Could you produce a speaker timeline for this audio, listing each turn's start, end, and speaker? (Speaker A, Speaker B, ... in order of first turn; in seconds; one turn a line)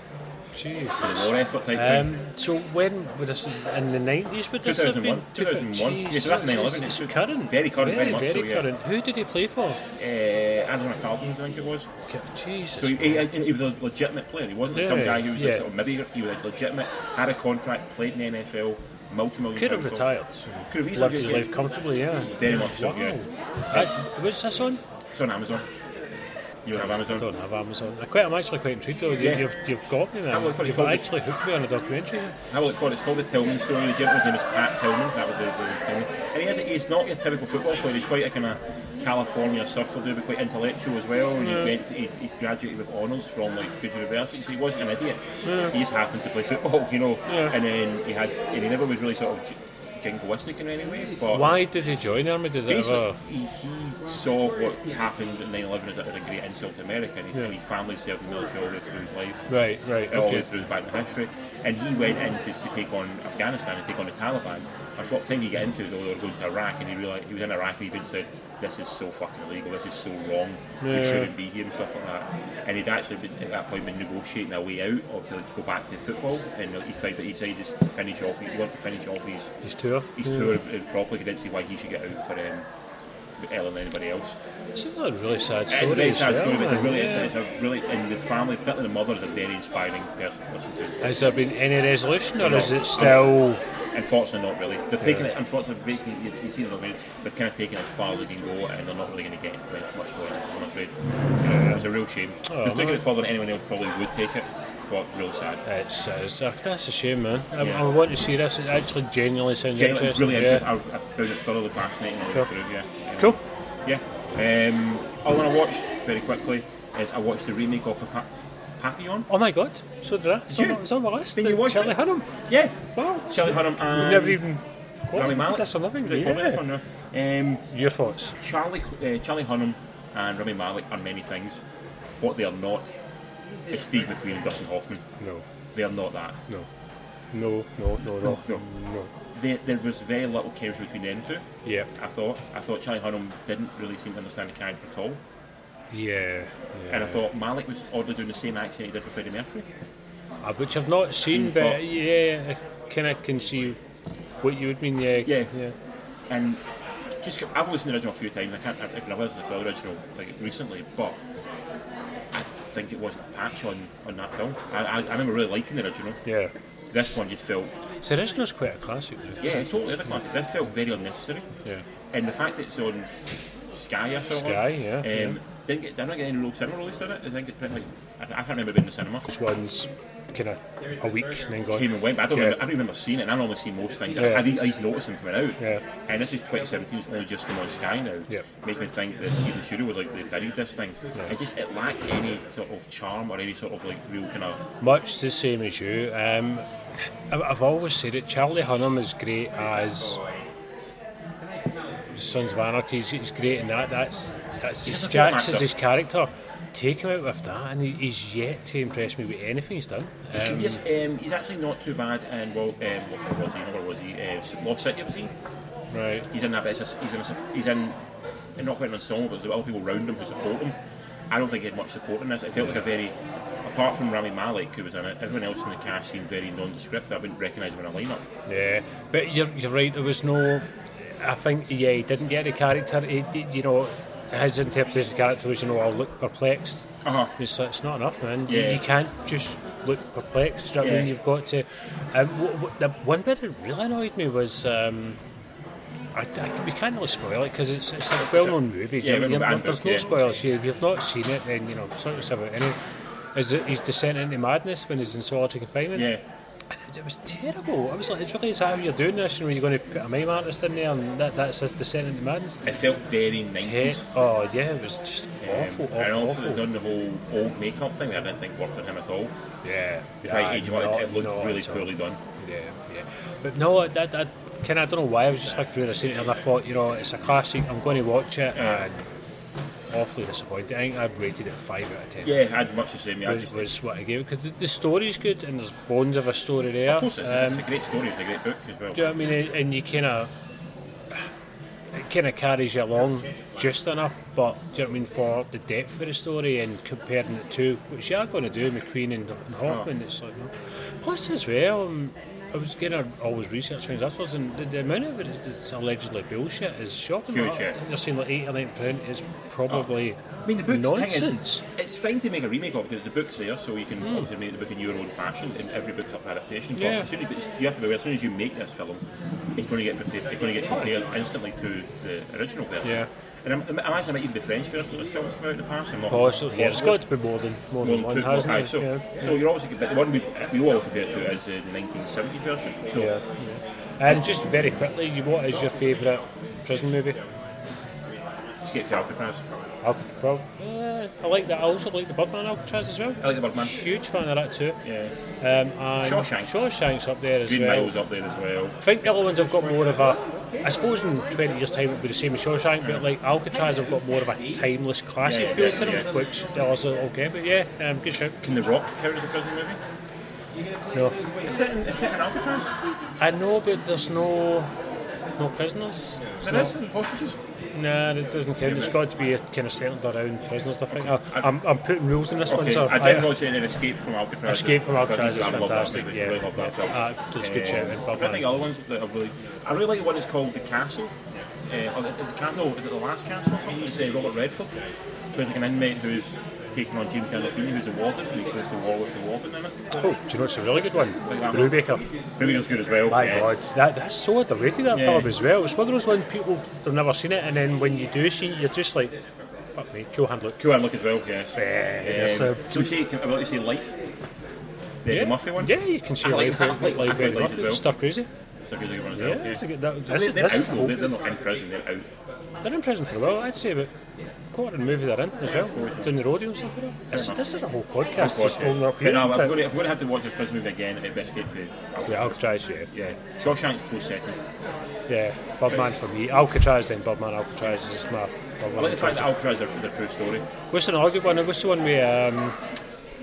Speaker A: 0.6-9.8
Speaker B: 0.9-2.1
Speaker B: 4.6-8.7
Speaker B: 10.0-11.9
Speaker A: 12.1-13.3
Speaker B: 12.7-20.1
Speaker A: 14.8-15.7
Speaker A: 19.6-24.8
Speaker B: 20.7-21.6
Speaker B: 22.4-23.2
Speaker B: 25.1-25.7
Speaker B: 26.6-27.3
Speaker A: 26.8-32.4
Speaker B: 29.2-29.4
Speaker B: 30.3-31.1
Speaker B: 32.5-51.6
Speaker A: 41.4-41.7
Speaker A: 45.5-45.7
Speaker A: 47.3-47.5
Speaker A: 51.3-53.2
Speaker B: 52.7-59.5
Speaker A: 59.5-60.5
Speaker B: 60.1-79.5
Speaker A: 70.8-71.3
Speaker A: 79.6-80.5
Speaker B: 80.2-82.7
Speaker B: 83.4-84.4
Speaker A: 84.8-87.3
Speaker B: 85.7-91.2
Speaker A: 91.0-93.6
Speaker B: 92.4-93.4
Speaker B: 93.9-105.6
Speaker A: 101.5-101.8
Speaker A: 102.5-103.0
Speaker A: 105.7-110.7
Speaker B: 107.6-107.9
Speaker B: 109.8-119.3
Speaker A: 119.3-122.3
Speaker B: 120.5-122.0
Speaker B: 122.5-124.5
Speaker A: 122.9-126.6
Speaker B: 125.1-127.7
Speaker A: 127.7-128.4
Speaker B: 128.4-131.6
Speaker B: 132.2-132.9
Speaker B: 133.7-135.0
Speaker A: 135.2-135.4
Speaker B: 135.7-136.4
Speaker A: 137.3-139.1
Speaker B: 138.1-138.6
Speaker B: 139.3-145.2
Speaker A: 141.7-141.9
Speaker A: 145.9-147.2
Speaker B: 146.9-149.7
Speaker A: 150.4-153.8
Speaker B: 151.3-151.8
Speaker A: 154.4-155.8
Speaker B: 155.2-155.5
Speaker B: 156.3-156.6
Speaker B: 157.2-161.2
Speaker B: 162.3-166.2
Speaker A: 166.3-166.5
Speaker B: 166.9-167.8
Speaker A: 168.0-169.6
Speaker B: 169.4-171.5
Speaker B: 172.1-173.1
Speaker B: 173.7-179.3
Speaker A: 174.4-175.4
Speaker A: 179.3-182.6
Speaker B: 181.7-194.7
Speaker A: 184.2-184.5
Speaker A: 194.8-196.7
Speaker A: 197.3-200.2
Speaker A: 202.1-210.8
Speaker B: 204.8-205.7
Speaker B: 210.3-215.3
Speaker A: 215.9-216.3
Speaker B: 216.3-218.0
Speaker B: 218.6-220.8
Speaker B: 221.3-228.3
Speaker A: 228.5-230.7
Speaker A: 231.2-245.2
Speaker B: 237.0-237.3
Speaker B: 238.5-238.8
Speaker B: 240.8-241.1
Speaker A: 246.2-252.8
Speaker B: 248.2-250.1
Speaker A: 253.3-256.1
Speaker B: 255.9-256.2
Speaker A: 256.8-262.6
Speaker B: 262.6-264.1
Speaker A: 263.6-266.6
Speaker B: 265.4-269.3
Speaker A: 269.6-279.1
Speaker B: 270.2-272.2
Speaker B: 278.5-278.8
Speaker A: 279.9-282.4
Speaker B: 282.2-283.7
Speaker A: 283.2-287.6
Speaker B: 286.9-289.1
Speaker A: 288.9-290.3
Speaker A: 291.9-311.6
Speaker B: 307.3-307.8
Speaker B: 310.5-319.0
Speaker A: 316.8-317.1
Speaker B: 319.6-327.1
Speaker A: 322.8-323.1
Speaker A: 326.1-329.3
Speaker B: 327.8-333.1
Speaker A: 332.9-337.2
Speaker B: 338.6-339.4
Speaker A: 339.8-344.8
Speaker B: 343.2-343.8
Speaker B: 344.8-345.1
Speaker A: 345.4-347.9
Speaker B: 346.0-346.5
Speaker B: 347.4-348.8
Speaker A: 348.8-358.4
Speaker B: 355.2-356.1
Speaker B: 358.4-359.8
Speaker A: 360.9-361.2
Speaker B: 361.4-362.7
Speaker A: 363.2-364.7
Speaker A: 365.4-366.7
Speaker B: 366.4-367.4
Speaker A: 367.7-373.4
Speaker B: 368.6-368.9
Speaker B: 370.9-371.5
Speaker B: 372.5-384.8
Speaker A: 374.5-378.5
Speaker B: 385.3-389.9
Speaker A: 389.9-392.1
Speaker B: 391.1-393.6
Speaker A: 393.1-399.1
Speaker B: 394.9-395.3
Speaker A: 399.8-400.6
Speaker B: 400.6-404.0
Speaker A: 401.6-402.9
Speaker B: 405.0-407.9
Speaker A: 405.1-408.3
Speaker B: 408.7-412.1
Speaker A: 409.1-411.1
Speaker A: 412.6-413.9
Speaker A: 414.5-419.6
Speaker B: 415.5-416.1
Speaker B: 417.1-417.4
Speaker B: 418.2-424.4
Speaker A: 422.1-422.9
Speaker A: 425.1-429.3
Speaker B: 428.8-430.5
Speaker A: 430.7-432.6